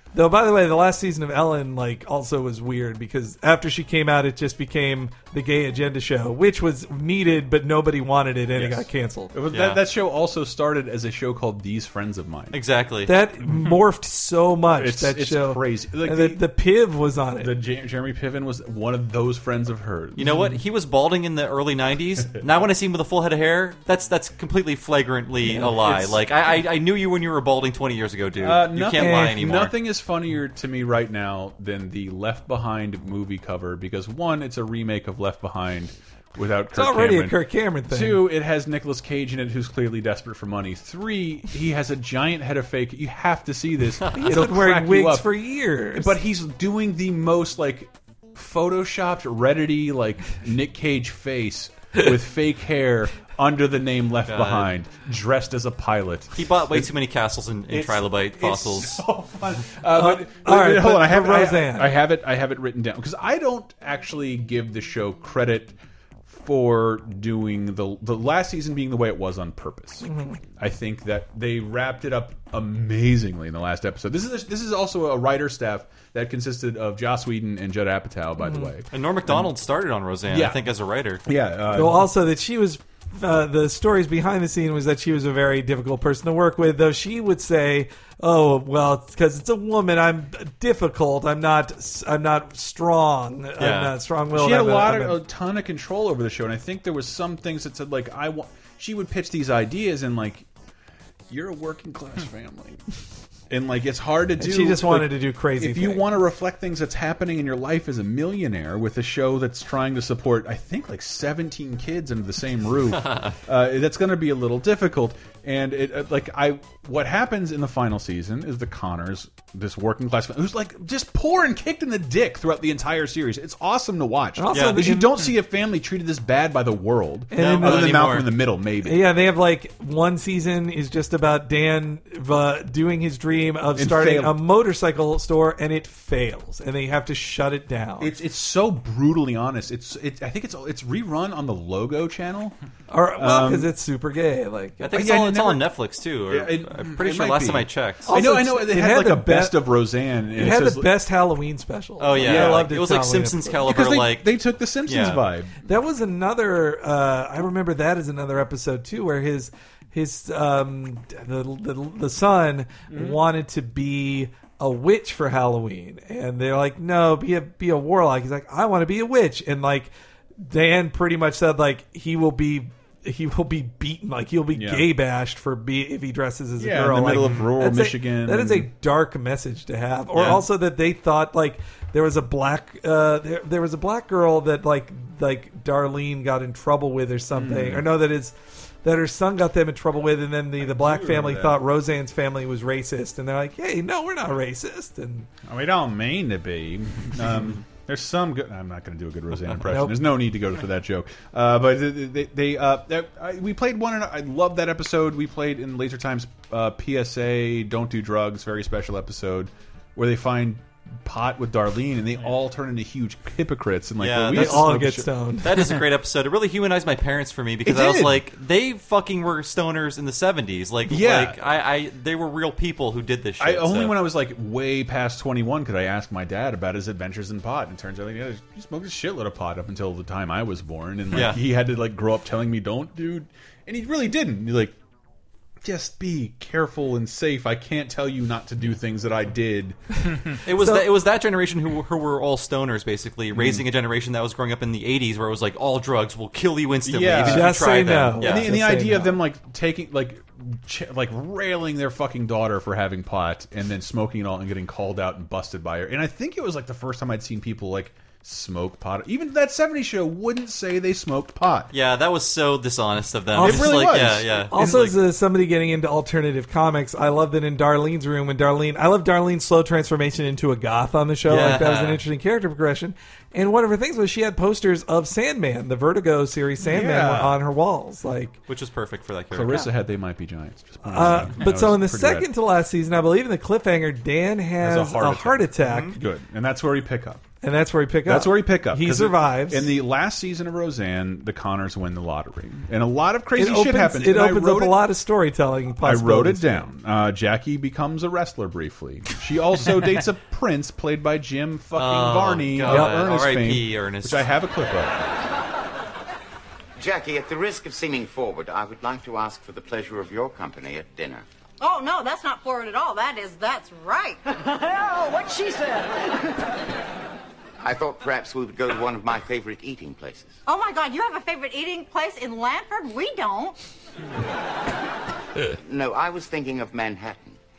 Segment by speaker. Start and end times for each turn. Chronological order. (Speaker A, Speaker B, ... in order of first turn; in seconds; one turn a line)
Speaker A: 0.1-9.3
Speaker B: 8.5-12.6
Speaker C: 9.5-9.8
Speaker C: 12.5-13.1
Speaker A: 13.0-17.5
Speaker B: 14.8-16.4
Speaker B: 17.4-20.5
Speaker C: 20.1-29.7
Speaker B: 25.8-26.2
Speaker B: 28.4-45.3
Speaker A: 28.9-29.4
Speaker A: 36.7-38.2
Speaker A: 44.1-46.1
Speaker B: 45.9-56.9
Speaker C: 54.3-54.7
Speaker C: 56.3-59.0
Speaker B: 57.7-65.8
Speaker A: 59.9-62.0
Speaker B: 66.3-79.5
Speaker A: 70.0-70.4
Speaker C: 78.9-81.2
Speaker B: 80.3-80.6
Speaker B: 81.2-82.1
Speaker A: 81.7-95.2
Speaker C: 93.6-94.0
Speaker B: 94.3-100.5
Speaker B: 101.3-102.8
Speaker B: 103.5-129.0
Speaker A: 104.4-106.1
Speaker A: 124.4-125.2
Speaker C: 124.5-124.8
Speaker A: 127.3-128.2
Speaker C: 127.3-128.3
Speaker A: 128.8-138.1
Speaker B: 133.8-134.4
Speaker B: 138.0-142.6
Speaker A: 142.9-144.9
Speaker B: 143.2-143.7
Speaker C: 144.8-148.2
Speaker B: 144.9-145.7
Speaker B: 146.3-150.9
Speaker A: 148.1-149.7
Speaker A: 150.3-153.7
Speaker C: 152.0-155.2
Speaker B: 152.2-152.7
Speaker B: 153.6-155.6
Speaker A: 155.6-195.3
Speaker B: 162.9-163.2
Speaker B: 174.5-174.9
Speaker B: 176.6-178.7
Speaker B: 180.1-180.4
Speaker B: 187.3-187.9
Speaker B: 190.6-191.6
Speaker B: 195.4-215.1
Speaker A: 199.7-200.0
Speaker C: 214.0-214.8
Speaker A: 214.3-215.7
Speaker C: 215.4-223.9
Speaker B: 217.6-218.2
Speaker B: 220.8-221.4
Speaker B: 223.4-234.8
Speaker C: 231.1-231.4
Speaker B: 235.6-239.8
Speaker C: 240.4-248.6
Speaker A: 240.5-240.9
Speaker B: 243.3-243.6
Speaker B: 246.8-261.7
Speaker A: 247.2-249.2
Speaker C: 261.7-264.9
Speaker A: 263.3-278.4
Speaker B: 263.4-264.9
Speaker C: 271.2-272.0
Speaker B: 276.6-277.4
Speaker C: 278.5-279.7
Speaker B: 279.3-282.3
Speaker A: 280.8-286.0
Speaker B: 284.6-287.2
Speaker C: 285.6-285.9
Speaker A: 287.4-289.8
Speaker B: 288.1-294.8
Speaker A: 293.4-296.7
Speaker B: 295.8-305.1
Speaker C: 301.7-304.2
Speaker A: 302.6-303.0
Speaker D: 306.8-311.2
Speaker E: 311.6-314.2
Speaker D: 317.6-320.4
Speaker E: 320.4-323.6
Speaker D: 325.6-327.4